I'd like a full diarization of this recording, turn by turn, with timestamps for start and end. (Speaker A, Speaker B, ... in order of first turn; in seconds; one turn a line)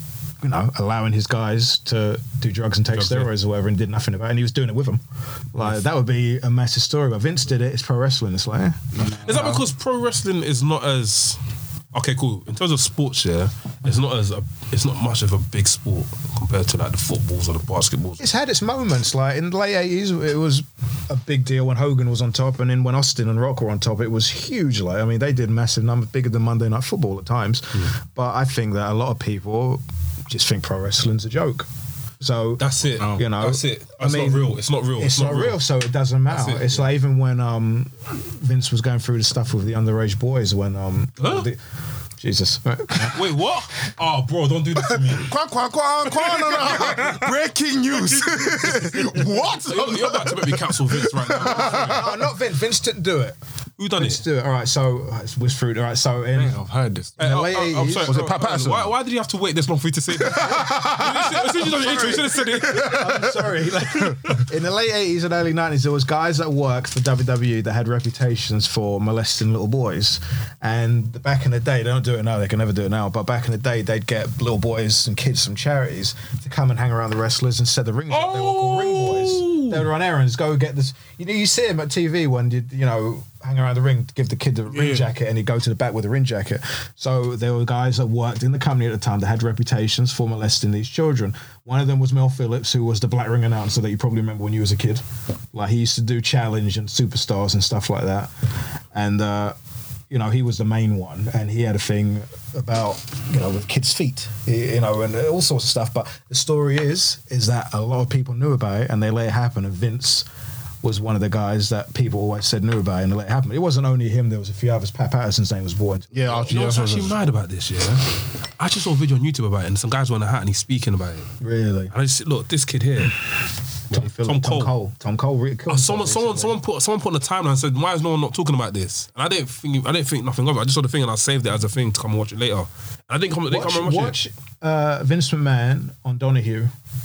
Speaker A: 0.4-5.0
Speaker B: 2.9-3.3
Speaker A: 5.5-9.6
Speaker C: 8.9-9.6
Speaker B: 9.2-11.4
Speaker B: 11.9-18.2
Speaker A: 18.2-31.7
Speaker A: 32.2-41.6
Speaker B: 32.6-35.6
Speaker B: 36.3-36.9
Speaker B: 41.2-41.5
Speaker A: 42.2-43.3
Speaker B: 43.1-45.3
Speaker D: 45.0-52.2
Speaker B: 46.4-47.2
Speaker C: 48.2-49.2
Speaker B: 49.3-52.1
Speaker A: 51.4-53.4
Speaker B: 53.8-54.2
Speaker A: 53.9-56.5
Speaker C: 56.3-57.2
Speaker A: 57.2-58.1
Speaker B: 57.2-63.0
Speaker D: 58.0-59.0
Speaker D: 60.1-64.3
Speaker A: 60.7-98.3
Speaker B: 78.2-79.8
Speaker C: 78.4-79.6
Speaker A: 98.9-99.5
Speaker A: 100.1-110.2
Speaker A: 110.8-116.5
Speaker D: 116.1-117.2
Speaker B: 116.5-121.3
Speaker A: 121.4-121.9
Speaker B: 121.9-123.3
Speaker B: 123.9-124.7
Speaker A: 123.9-126.6
Speaker B: 125.7-134.2
Speaker A: 133.5-136.7